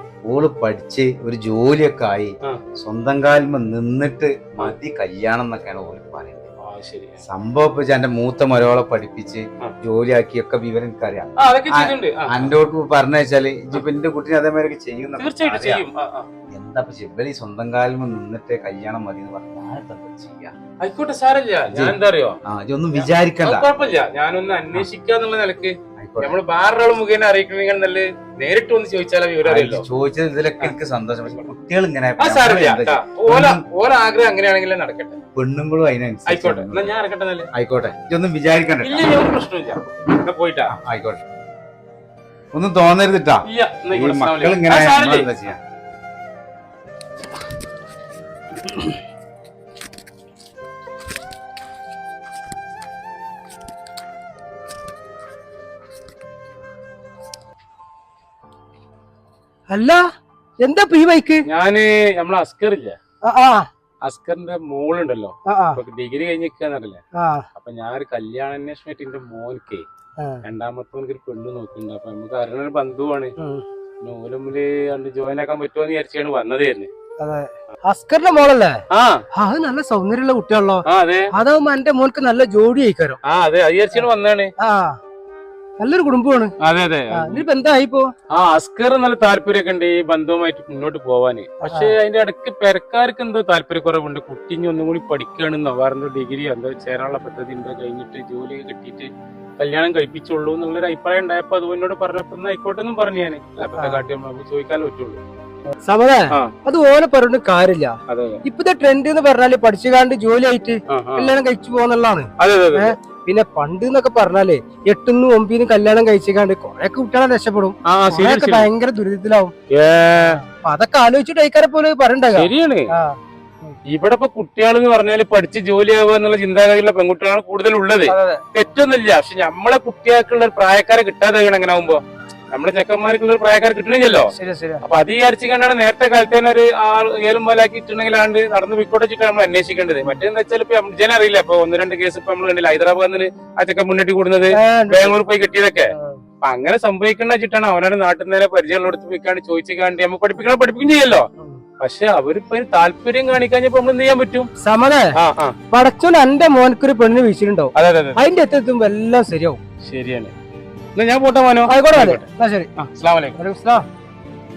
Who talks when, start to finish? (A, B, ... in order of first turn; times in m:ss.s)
0:00.3-0:06.5 A
0:06.6-0:07.2 B
0:07.2-0:15.8 A
0:11.4-0:12.5 B
0:15.2-0:16.3 B
0:16.5-0:20.5 A
0:20.8-0:22.4 B
0:21.7-0:23.7 A
0:22.9-0:29.8 B
0:26.0-0:26.4 A
0:29.4-0:33.6 A
0:30.6-0:31.5 B
0:32.2-0:35.2 B
0:35.3-0:36.9 A
0:36.3-0:37.5 B
0:37.5-0:39.1 A
0:38.8-0:40.7 B
0:40.7-0:41.2 A
0:42.5-0:45.6 A
0:43.4-0:45.3 B
0:59.7-1:00.0 C
1:00.6-1:01.4 C
1:01.5-1:03.0 B
1:03.2-1:03.7 C
1:04.0-1:07.0 B
1:05.5-1:05.8 C
1:07.1-1:07.4 C
1:07.5-1:09.8 B
1:10.4-1:13.3 B
1:13.4-1:13.6 C
1:14.0-1:16.9 B
1:17.2-1:18.8 C
1:18.9-1:19.2 B
1:19.3-1:23.2 C
1:20.8-1:21.3 B
1:23.2-1:24.5 B
1:24.6-1:25.0 C
1:25.8-1:26.5 C
1:26.6-1:27.4 B
1:27.1-1:28.1 C
1:28.3-1:45.2 B
1:31.6-1:31.9 C
1:43.6-1:44.0 C
1:45.8-1:59.5 C
1:48.1-1:48.4 B
1:50.9-1:51.4 B
1:52.4-1:52.9 B
1:57.8-1:58.7 B
1:59.7-2:00.4 B
2:00.1-2:03.8 C
2:02.3-2:02.9 B
2:03.9-2:12.0 B
2:08.1-2:08.4 C
2:12.5-2:31.3 B
2:14.4-2:14.8 C
2:24.5-2:25.2 C
2:31.8-2:34.5 B
2:34.6-2:35.1 C
2:35.1-2:35.6 B
2:35.7-2:39.6 C
2:37.8-2:38.2 B
2:39.8-2:40.3 B
2:41.0-2:43.4 B
2:41.7-2:42.7 C
2:43.4-2:43.8 C